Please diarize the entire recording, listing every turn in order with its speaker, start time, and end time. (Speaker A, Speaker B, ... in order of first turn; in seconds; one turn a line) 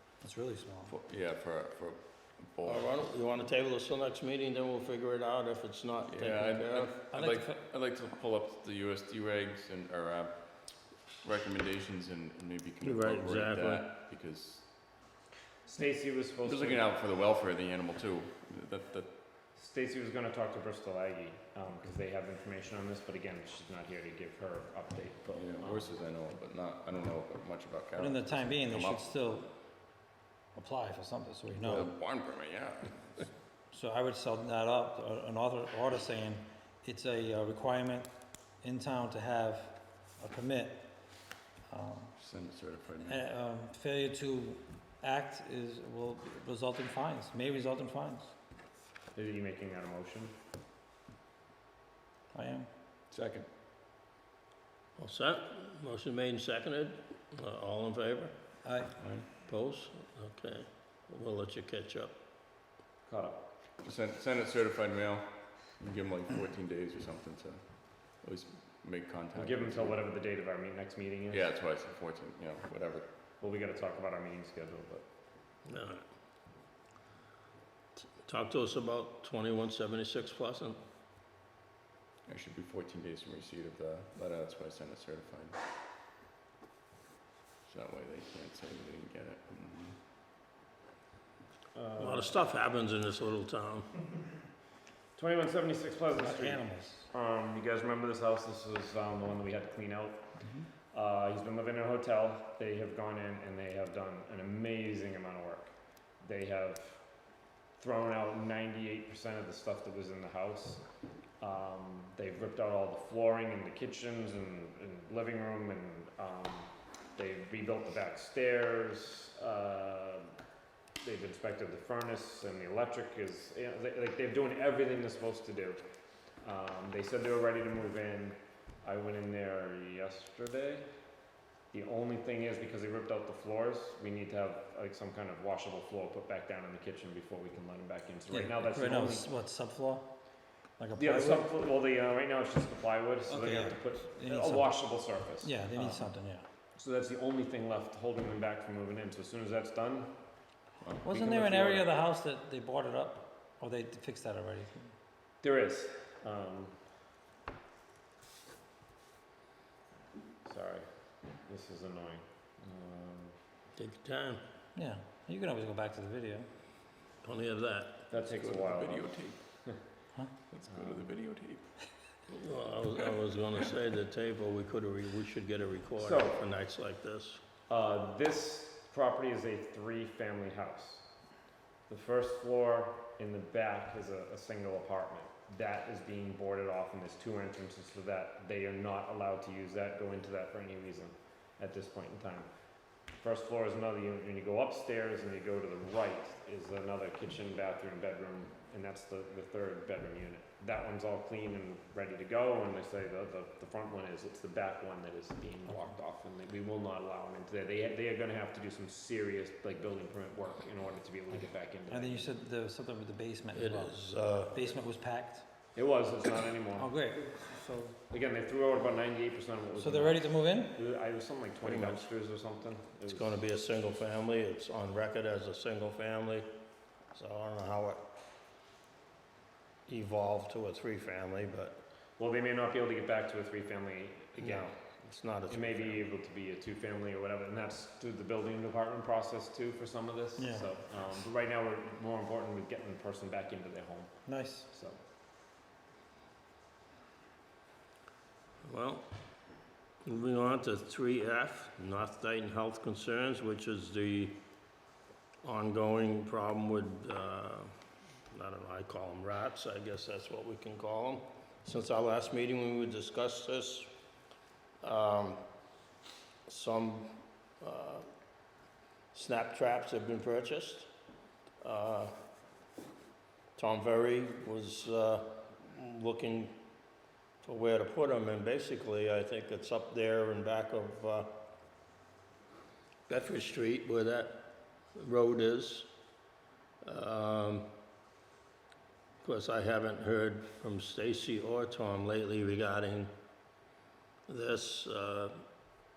Speaker A: 0.2-0.9
Speaker B: 0.8-2.9
Speaker C: 2.6-7.0
Speaker B: 6.1-14.7
Speaker A: 7.1-7.6
Speaker C: 12.8-13.9
Speaker D: 15.7-16.9
Speaker B: 16.4-19.1
Speaker D: 19.5-25.9
Speaker B: 25.3-29.1
Speaker A: 28.0-29.5
Speaker A: 30.5-31.9
Speaker B: 31.6-33.3
Speaker A: 33.7-36.3
Speaker A: 36.8-38.0
Speaker A: 38.6-39.7
Speaker A: 40.2-40.8
Speaker A: 41.7-42.1
Speaker B: 42.2-43.2
Speaker A: 43.1-48.3
Speaker D: 49.1-50.3
Speaker A: 52.3-52.7
Speaker B: 53.1-53.5
Speaker C: 55.0-58.3
Speaker A: 58.6-58.9
Speaker B: 59.0-59.2
Speaker C: 59.2-62.1
Speaker D: 63.1-63.4
Speaker B: 63.8-70.0
Speaker D: 69.3-71.5
Speaker B: 71.3-73.1
Speaker D: 73.4-75.0
Speaker C: 75.7-76.0
Speaker C: 78.0-80.8
Speaker B: 82.3-85.6
Speaker B: 87.7-90.0
Speaker D: 91.7-92.4
Speaker C: 92.0-94.0
Speaker D: 95.2-100.3
Speaker A: 96.2-97.1
Speaker D: 100.9-107.0
Speaker D: 107.8-110.8
Speaker D: 111.4-120.3
Speaker D: 121.0-125.8
Speaker D: 126.4-130.9
Speaker D: 131.7-139.3
Speaker A: 138.3-140.1
Speaker A: 140.8-141.5
Speaker D: 140.9-146.1
Speaker A: 143.3-144.7
Speaker A: 145.4-146.4
Speaker D: 146.7-150.1
Speaker B: 150.8-151.8
Speaker A: 151.0-154.9
Speaker D: 151.1-151.8
Speaker D: 155.4-156.8
Speaker D: 160.4-160.9
Speaker D: 161.4-163.3
Speaker C: 163.8-164.4
Speaker A: 164.7-166.5
Speaker C: 167.2-168.1
Speaker D: 168.1-169.8
Speaker B: 168.2-169.9
Speaker B: 170.5-171.8
Speaker D: 170.7-171.2
Speaker C: 172.3-177.4
Speaker D: 176.0-176.4
Speaker D: 177.7-181.1
Speaker D: 181.9-192.5
Speaker D: 193.2-212.3
Speaker A: 211.9-215.4
Speaker C: 213.5-214.6
Speaker D: 215.7-216.9
Speaker A: 216.8-217.9
Speaker D: 218.1-223.4
Speaker A: 219.8-220.8
Speaker C: 221.6-222.1
Speaker C: 223.1-226.6
Speaker C: 227.1-228.1
Speaker C: 229.9-231.8
Speaker D: 232.2-234.7
Speaker C: 234.4-236.1
Speaker D: 235.5-245.0
Speaker A: 240.4-240.7
Speaker A: 244.2-244.7
Speaker C: 248.6-249.1
Speaker C: 250.0-254.4
Speaker C: 255.4-257.7
Speaker C: 258.3-263.9
Speaker C: 264.8-265.4
Speaker C: 266.5-268.1
Speaker C: 269.1-270.9
Speaker C: 271.6-272.1
Speaker C: 273.6-276.6
Speaker C: 277.4-281.3
Speaker C: 283.1-285.9
Speaker C: 286.8-287.7
Speaker C: 289.2-293.1
Speaker C: 294.3-295.4